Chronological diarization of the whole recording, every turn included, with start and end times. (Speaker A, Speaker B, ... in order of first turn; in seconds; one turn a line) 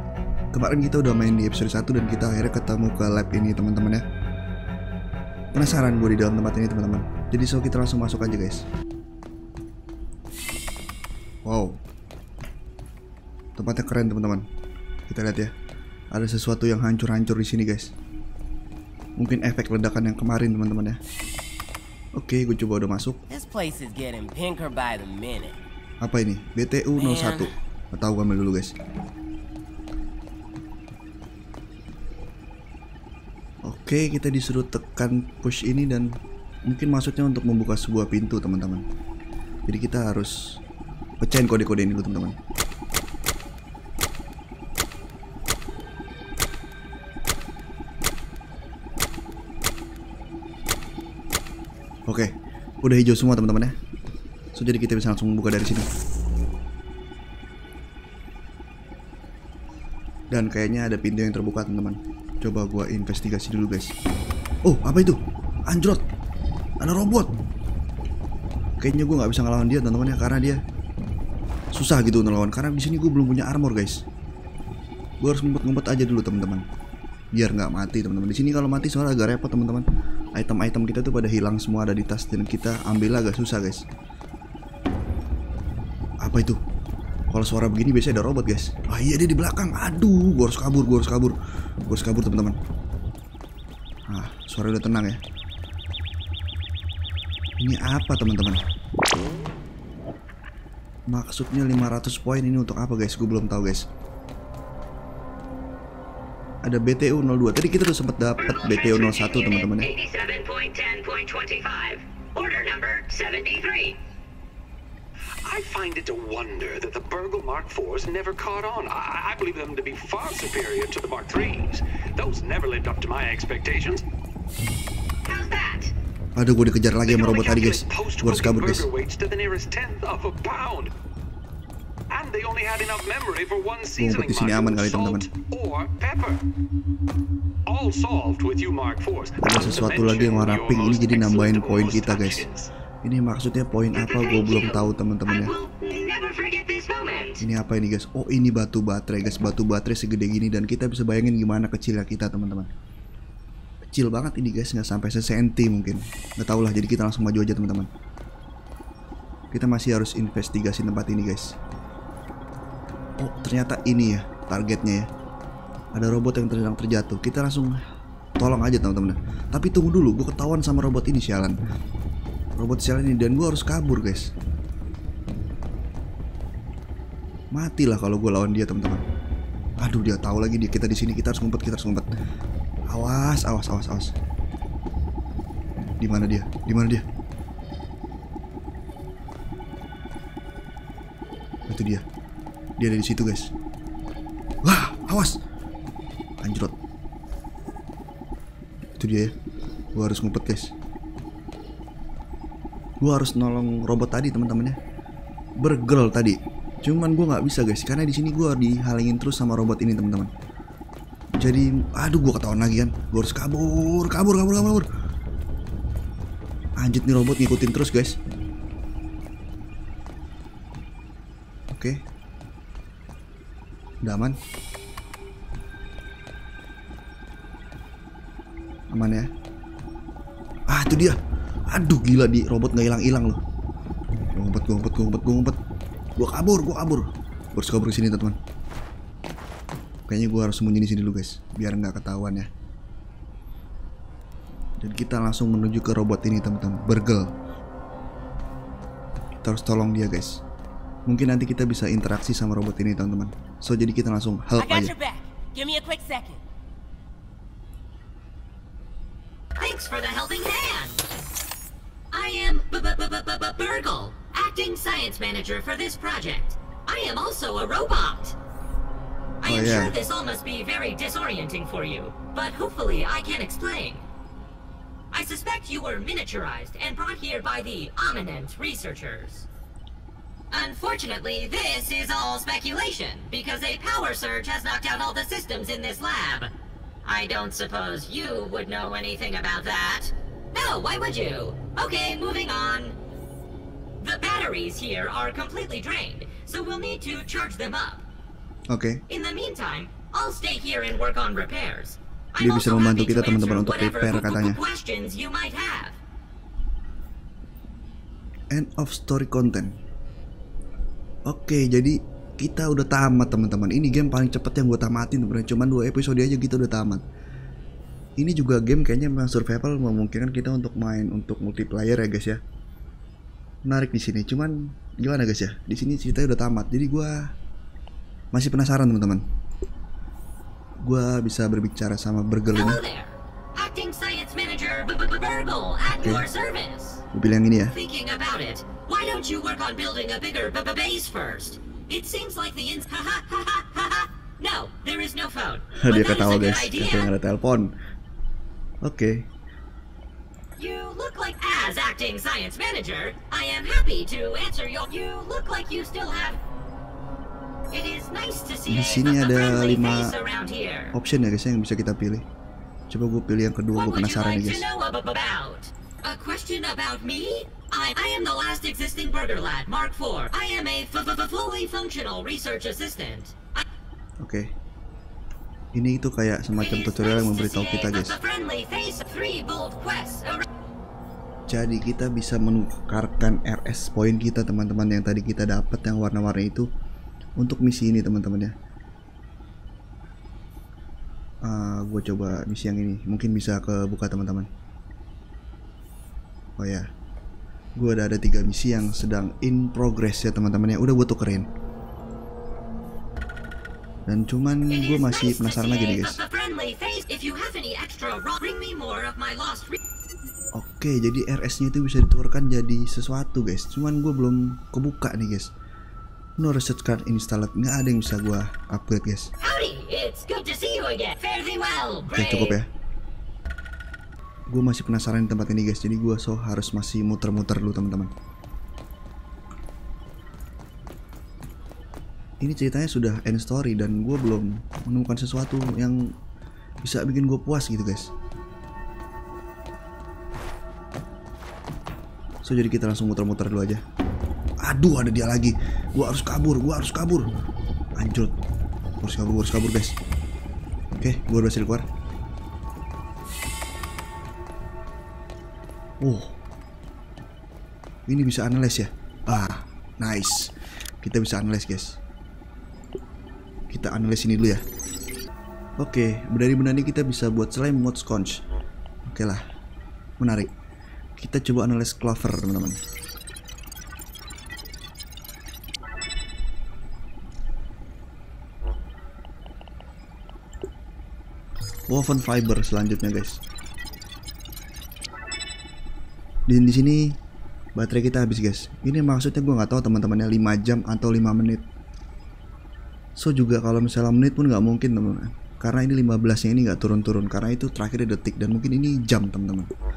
Speaker A: 0.5-4.0
Speaker A: 5.5-8.6
Speaker A: 11.4-11.8
Speaker A: 13.6-14.4
Speaker A: 15.1-15.5
Speaker A: 16.1-17.9
Speaker A: 19.2-21.0
Speaker A: 22.2-23.2
Speaker B: 23.3-25.6
Speaker A: 26.0-28.7
Speaker B: 26.9-27.5
Speaker A: 33.6-36.1
Speaker A: 36.7-38.8
Speaker A: 39.7-40.6
Speaker A: 41.2-42.4
Speaker A: 52.8-53.7
Speaker A: 54.5-55.9
Speaker A: 60.3-63.9
Speaker A: 64.6-66.0
Speaker A: 66.8-67.3
Speaker A: 68.8-70.6
Speaker A: 71.7-74.0
Speaker A: 75.2-76.6
Speaker A: 77.3-79.8
Speaker A: 80.3-83.8
Speaker A: 86.2-86.6
Speaker A: 87.3-92.6
Speaker A: 94.1-95.2
Speaker A: 97.6-98.6
Speaker A: 101.1-103.8
Speaker A: 106.6-109.9
Speaker C: 108.4-114.0
Speaker D: 115.4-124.0
Speaker C: 125.2-125.9
Speaker A: 126.3-128.9
Speaker D: 127.0-130.9
Speaker D: 132.1-136.4
Speaker A: 134.0-135.3
Speaker D: 137.7-142.7
Speaker A: 139.4-142.5
Speaker A: 143.0-145.5
Speaker C: 143.9-147.4
Speaker A: 147.4-152.7
Speaker A: 153.9-157.9
Speaker A: 159.5-161.6
Speaker A: 163.2-165.1
Speaker A: 165.9-167.8
Speaker A: 168.4-171.6
Speaker A: 172.6-174.3
Speaker A: 177.5-179.0
Speaker A: 179.8-182.1
Speaker A: 182.9-184.1
Speaker A: 186.0-187.0
Speaker A: 191.7-192.0
Speaker A: 192.8-193.5
Speaker A: 194.6-195.4
Speaker A: 196.4-196.7
Speaker A: 199.0-199.3
Speaker A: 199.9-200.7
Speaker A: 203.0-204.8
Speaker A: 205.6-210.3
Speaker A: 211.4-214.9
Speaker A: 216.8-218.2
Speaker A: 221.7-222.0
Speaker A: 224.0-224.3
Speaker A: 228.9-229.3
Speaker A: 230.7-231.2
Speaker A: 231.7-233.4
Speaker A: 234.3-235.6
Speaker A: 236.2-238.4
Speaker A: 240.1-242.5
Speaker A: 244.8-247.3
Speaker A: 249.4-250.4
Speaker A: 251.1-254.9
Speaker B: 254.6-256.4
Speaker C: 259.5-261.0
Speaker C: 262.1-268.4
Speaker A: 269.4-269.9
Speaker C: 269.4-274.1
Speaker C: 275.1-279.5
Speaker C: 280.5-286.5
Speaker C: 287.0-293.0
Speaker C: 294.0-298.0
Speaker A: 298.7-299.0
Speaker C: 299.1-306.0
Speaker A: 302.4-304.6
Speaker A: 308.5-309.7
Speaker A: 311.2-317.0
Speaker A: 318.2-322.4
Speaker A: 323.6-327.1
Speaker A: 328.3-329.2
Speaker A: 330.8-332.8
Speaker C: 332.5-337.0
Speaker A: 336.0-336.3
Speaker A: 337.1-337.8
Speaker C: 337.7-347.1
Speaker A: 345.8-347.7
Speaker A: 348.8-349.3
Speaker C: 350.6-356.4
Speaker C: 357.7-360.9
Speaker A: 358.7-360.1
Speaker A: 360.9-362.2
Speaker A: 362.9-364.6
Speaker C: 363.7-373.6
Speaker A: 374.2-374.5
Speaker A: 375.7-378.2
Speaker C: 376.6-380.4
Speaker A: 381.5-386.6
Speaker A: 387.4-388.5
Speaker A: 391.4-394.5
Speaker A: 396.6-396.8
Speaker A: 397.8-401.5
Speaker A: 404.1-406.2
Speaker C: 404.7-409.8
Speaker A: 410.5-415.5
Speaker A: 416.4-419.3
Speaker C: 419.4-422.6
Speaker A: 422.1-422.7
Speaker A: 424.5-428.1
Speaker A: 432.4-436.1
Speaker A: 436.8-438.1
Speaker A: 442.4-443.8
Speaker A: 444.6-447.2
Speaker A: 448.0-448.3
Speaker A: 449.0-449.9
Speaker A: 451.0-451.8
Speaker A: 456.0-456.4
Speaker A: 458.1-462.0
Speaker A: 463.7-464.6
Speaker A: 465.8-468.4
Speaker A: 469.1-469.4
Speaker A: 470.2-470.5
Speaker A: 471.2-472.8
Speaker A: 481.9-483.4
Speaker A: 486.5-487.2
Speaker A: 487.8-491.6
Speaker A: 493.2-499.7